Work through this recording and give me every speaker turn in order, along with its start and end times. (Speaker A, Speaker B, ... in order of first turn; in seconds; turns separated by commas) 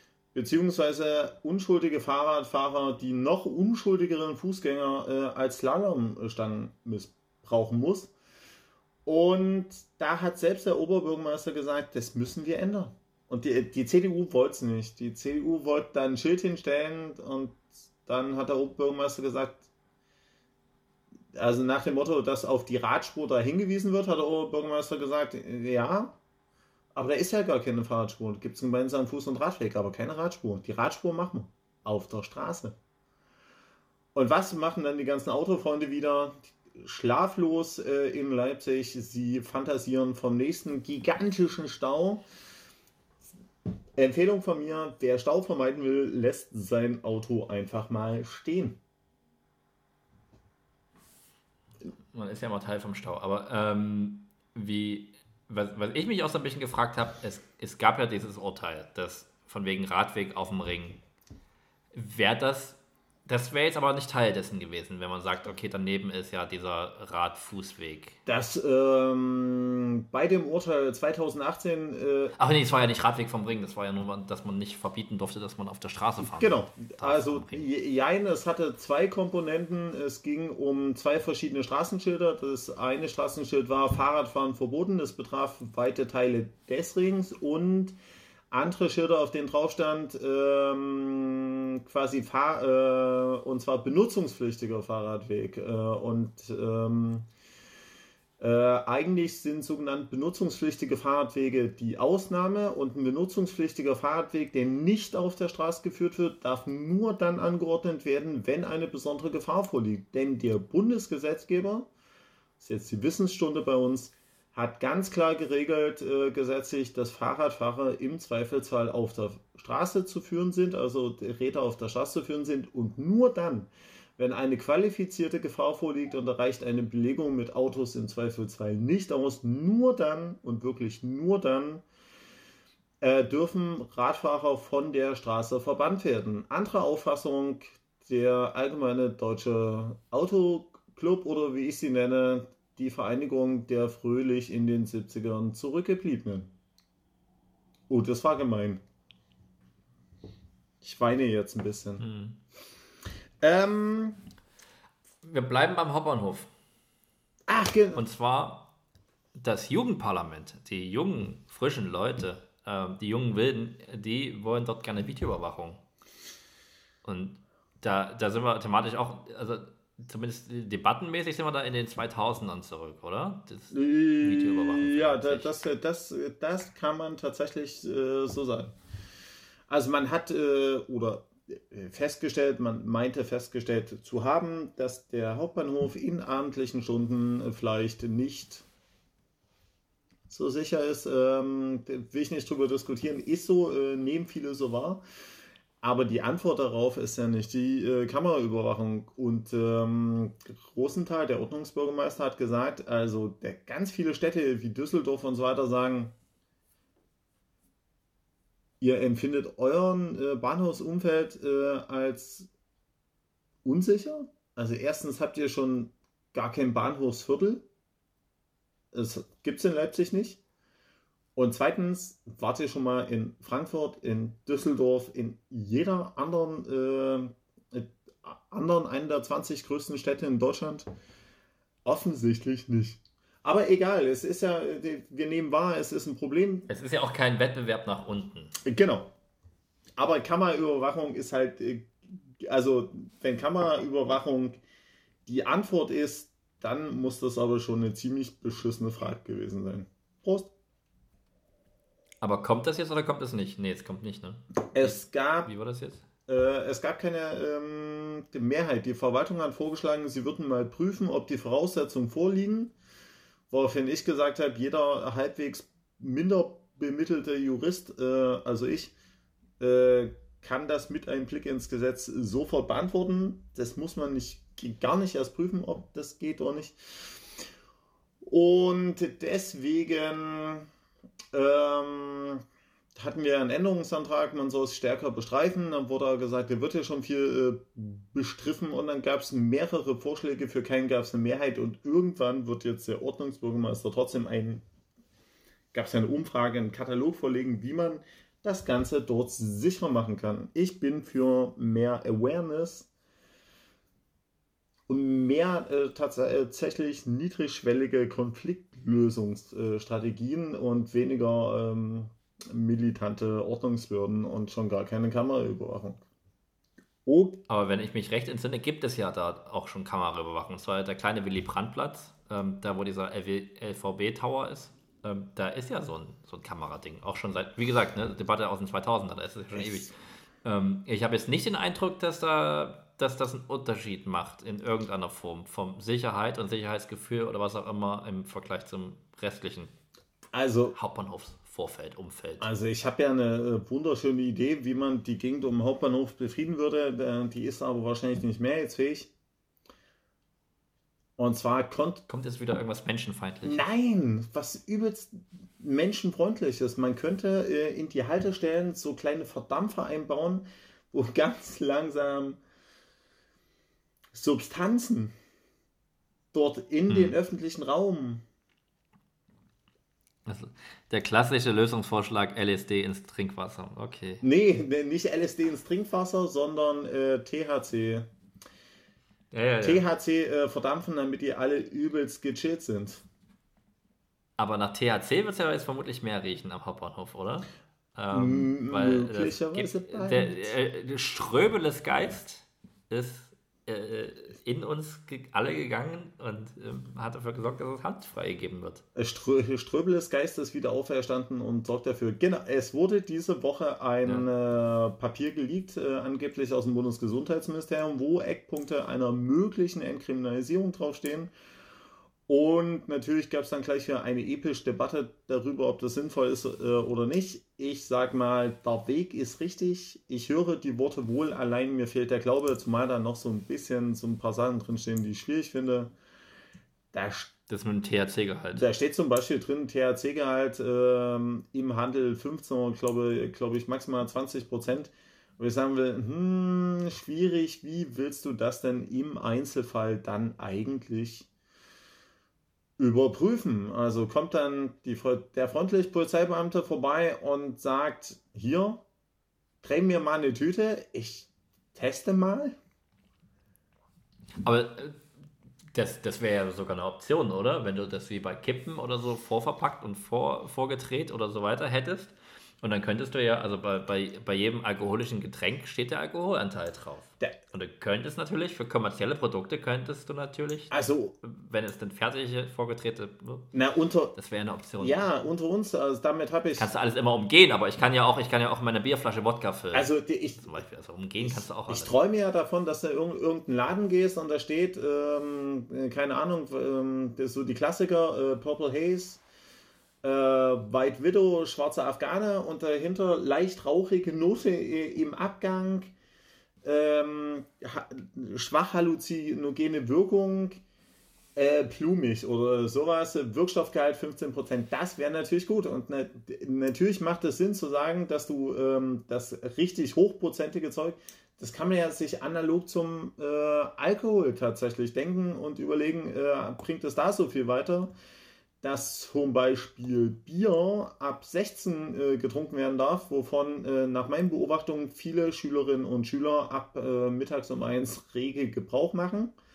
Speaker A: 0.3-8.1, Speaker A: 9.0-19.7, Speaker A: 21.3-26.2, Speaker A: 26.9-32.8, Speaker A: 34.1-42.2, Speaker A: 44.0-48.8, Speaker B: 52.1-61.0, Speaker B: 61.9-68.2, Speaker A: 68.2-72.3, Speaker B: 72.3-77.7, Speaker A: 76.2-88.0, Speaker A: 88.5-97.3, Speaker A: 98.4-111.9, Speaker A: 112.6-131.8, Speaker A: 133.0-146.5, Speaker A: 147.9-148.8, Speaker A: 150.8-152.0, Speaker B: 152.0-152.4, Speaker A: 153.4-154.2, Speaker B: 155.2-156.5, Speaker A: 157.5-158.0, Speaker B: 157.9-158.7, Speaker B: 159.3-165.8, Speaker B: 167.0-175.6, Speaker A: 173.7-178.8, Speaker A: 179.7-188.7, Speaker A: 190.3-195.0, Speaker A: 195.8-206.1, Speaker A: 208.8-212.5, Speaker A: 213.6-217.7, Speaker A: 218.9-220.4, Speaker A: 221.3-230.9, Speaker A: 231.8-236.7, Speaker B: 236.7-238.5, Speaker A: 238.6-239.1, Speaker A: 240.0-244.6, Speaker A: 245.2-250.5, Speaker B: 252.2-256.0, Speaker A: 254.7-255.5, Speaker A: 256.3-262.7, Speaker A: 263.5-268.9, Speaker A: 269.6-277.2, Speaker A: 278.2-280.7, Speaker A: 281.3-282.4, Speaker A: 282.9-294.6, Speaker A: 295.7-302.9, Speaker A: 304.9-316.0, Speaker A: 317.1-317.4, Speaker B: 317.5-339.7, Speaker A: 340.3-340.8, Speaker B: 340.7-342.5, Speaker A: 342.4-349.1, Speaker A: 351.2-352.0, Speaker B: 352.1-353.6, Speaker A: 353.4-362.4, Speaker A: 364.1-365.1, Speaker A: 366.3-368.2, Speaker B: 366.9-367.2, Speaker B: 370.2-374.2, Speaker A: 374.2-378.1, Speaker B: 379.3-379.8, Speaker A: 379.6-383.0, Speaker B: 384.4-398.8, Speaker A: 388.1-390.5, Speaker A: 398.9-411.3, Speaker A: 412.3-425.9, Speaker A: 426.9-427.3, Speaker B: 427.5-428.6, Speaker A: 428.5-441.3, Speaker A: 442.8-448.8, Speaker A: 449.6-452.6, Speaker B: 454.4-455.0, Speaker B: 455.7-473.5, Speaker A: 470.7-471.1, Speaker A: 473.5-474.1, Speaker B: 474.1-475.1, Speaker A: 474.8-476.7, Speaker B: 476.6-481.9, Speaker A: 479.7-480.5, Speaker A: 481.2-489.2, Speaker A: 490.0-495.9, Speaker A: 496.6-500.6, Speaker A: 501.4-517.9, Speaker A: 518.6-529.3